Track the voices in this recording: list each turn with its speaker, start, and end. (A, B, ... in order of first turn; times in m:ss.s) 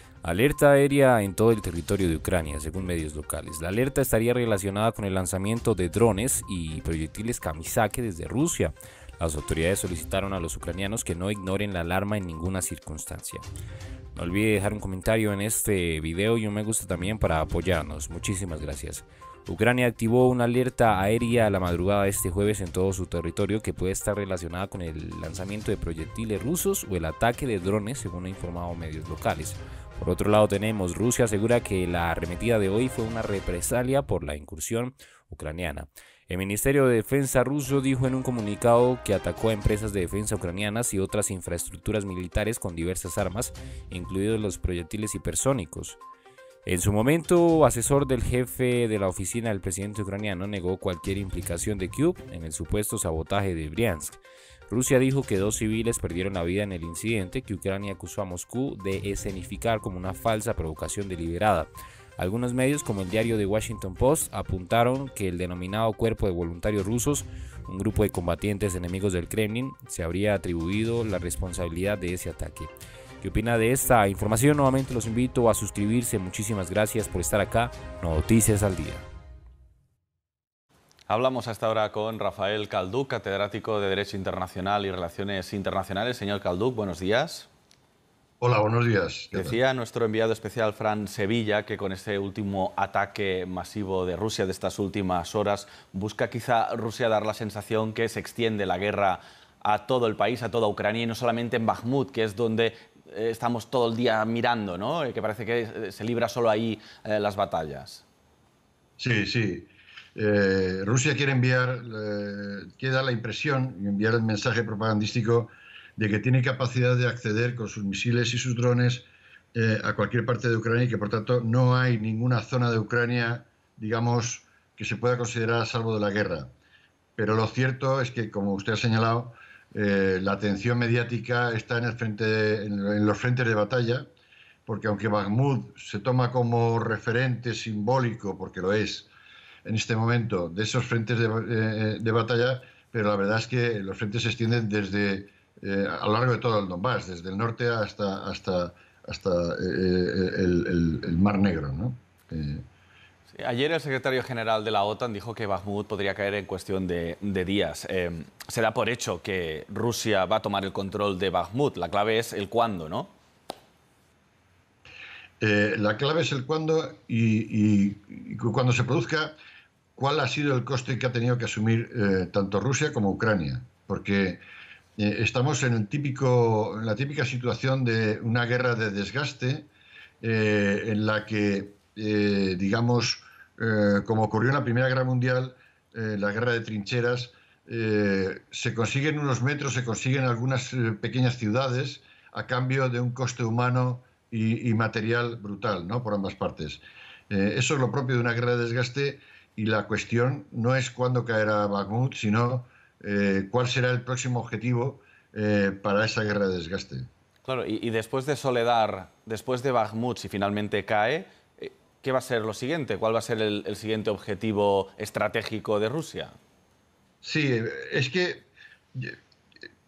0:00.2-0:13.4 A
0:14.1-0:46.0 A
0:46.6-1:19.1 A
1:21.1-1:27.5 B
1:28.4-1:29.6 C
1:29.3-1:48.0 B
1:49.0-2:06.5 C
2:07.2-2:14.1 C
2:14.6-2:19.1 C
2:19.6-2:32.6 C
2:33.3-2:43.1 B
2:45.4-2:49.4 C
2:50.0-2:54.4 C
2:55.0-2:59.7 C
3:00.2-3:27.1 C
3:27.4-3:36.3 B
3:37.2-3:39.2 C